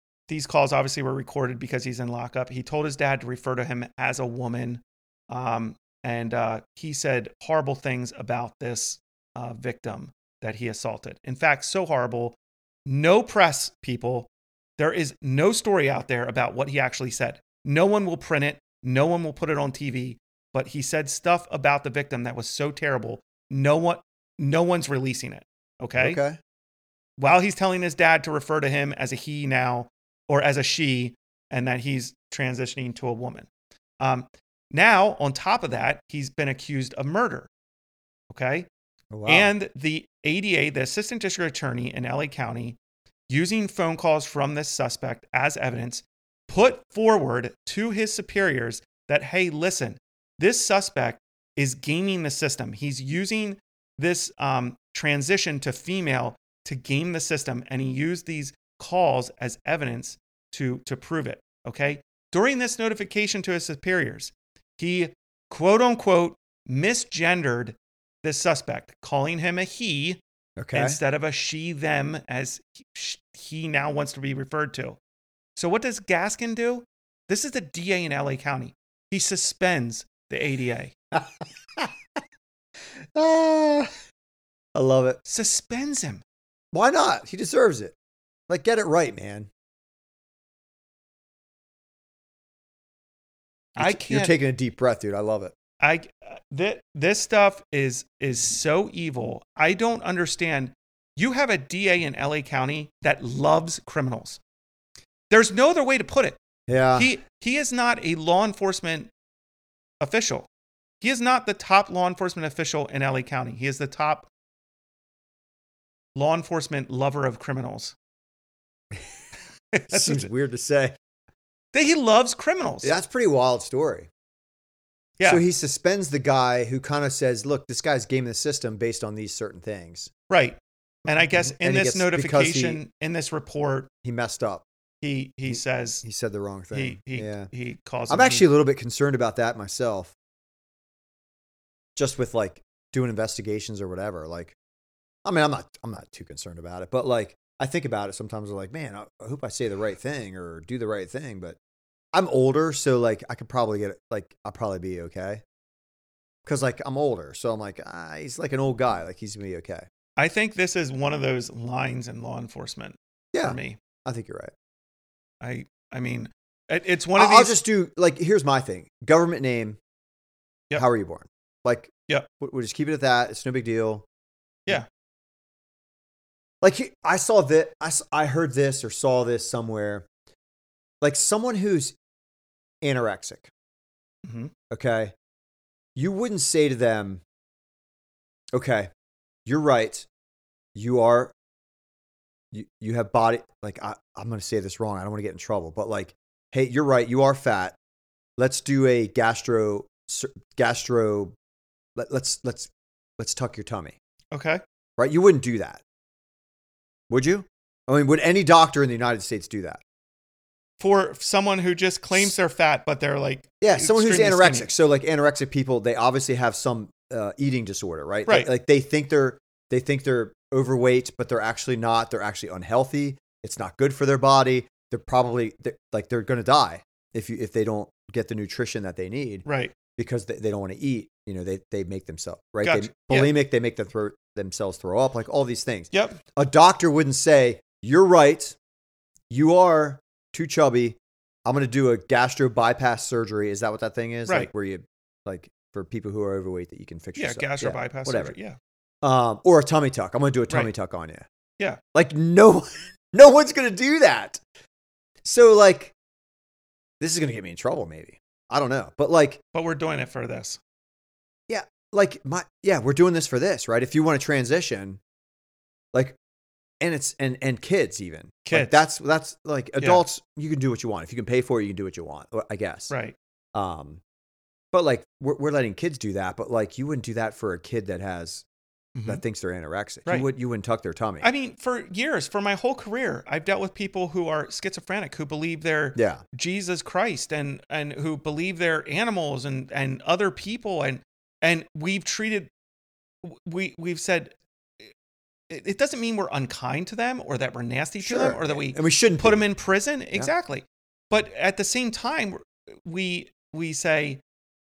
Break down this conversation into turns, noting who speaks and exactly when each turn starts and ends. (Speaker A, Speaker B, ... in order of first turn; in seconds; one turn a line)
Speaker A: 0.3-26.2
Speaker B: 26.0-26.4
Speaker A: 27.2-33.5
Speaker A: 34.0-37.5
Speaker A: 38.3-38.7
Speaker B: 39.1-39.5
Speaker A: 39.3-42.8
Speaker A: 43.3-70.2
Speaker B: 70.6-71.0
Speaker A: 70.7-75.0
Speaker A: 75.6-80.9
Speaker B: 81.1-81.9
Speaker B: 83.1-83.9
Speaker B: 84.8-85.2
Speaker A: 85.3-86.2
Speaker B: 86.7-88.0
Speaker B: 88.5-89.5
Speaker B: 93.8-95.5
Speaker A: 93.8-94.4
Speaker A: 95.8-104.4
Speaker A: 105.3-106.4
Speaker B: 106.7-107.1
Speaker A: 107.0-109.1
Speaker A: 110.0-110.5
Speaker A: 111.0-114.3
Speaker A: 116.2-118.0
Speaker A: 119.8-120.3
Speaker B: 119.9-121.0
Speaker A: 121.7-123.0
Speaker B: 122.8-124.1
Speaker B: 125.2-130.1
Speaker A: 130.3-133.9
Speaker B: 131.1-132.8
Speaker B: 134.0-134.7
Speaker A: 135.0-136.0
Speaker B: 135.5-137.5
Speaker A: 136.7-138.5
Speaker B: 138.1-140.1
Speaker B: 142.0-144.6
Speaker B: 145.2-151.6
Speaker B: 152.1-155.4
Speaker B: 156.4-159.8
Speaker A: 160.2-163.8
Speaker B: 163.3-164.5
Speaker A: 165.4-167.6
Speaker B: 167.2-169.8
Speaker B: 170.8-174.1
Speaker B: 176.6-180.1
Speaker B: 181.0-182.0
Speaker B: 182.8-183.5
Speaker A: 184.2-184.5
Speaker B: 184.7-185.1
Speaker B: 186.0-187.2
Speaker B: 188.5-188.9
Speaker B: 189.5-190.1
Speaker B: 190.8-191.3
Speaker B: 192.5-197.8
Speaker B: 198.4-201.3
Speaker B: 202.0-204.0
Speaker A: 204.3-204.6
Speaker B: 205.0-205.8
Speaker B: 207.1-209.8
Speaker A: 210.8-214.7
Speaker B: 213.6-229.4
Speaker A: 229.4-229.7
Speaker B: 230.0-238.6
Speaker A: 232.6-233.3
Speaker A: 235.9-236.2
Speaker B: 239.3-248.3
Speaker A: 247.2-248.6
Speaker B: 249.0-251.2
Speaker B: 251.9-254.4
Speaker B: 255.2-255.9
Speaker B: 257.0-259.4
Speaker A: 259.5-260.6
Speaker B: 261.5-265.0
Speaker B: 266.8-272.9
Speaker A: 268.4-268.8
Speaker A: 272.9-273.1
Speaker B: 273.5-274.0
Speaker B: 274.7-278.4
Speaker A: 278.9-279.2
Speaker B: 279.1-281.3
Speaker A: 281.2-292.5
Speaker B: 285.9-286.2
Speaker A: 293.2-294.9
Speaker A: 295.5-304.2
Speaker B: 298.0-299.4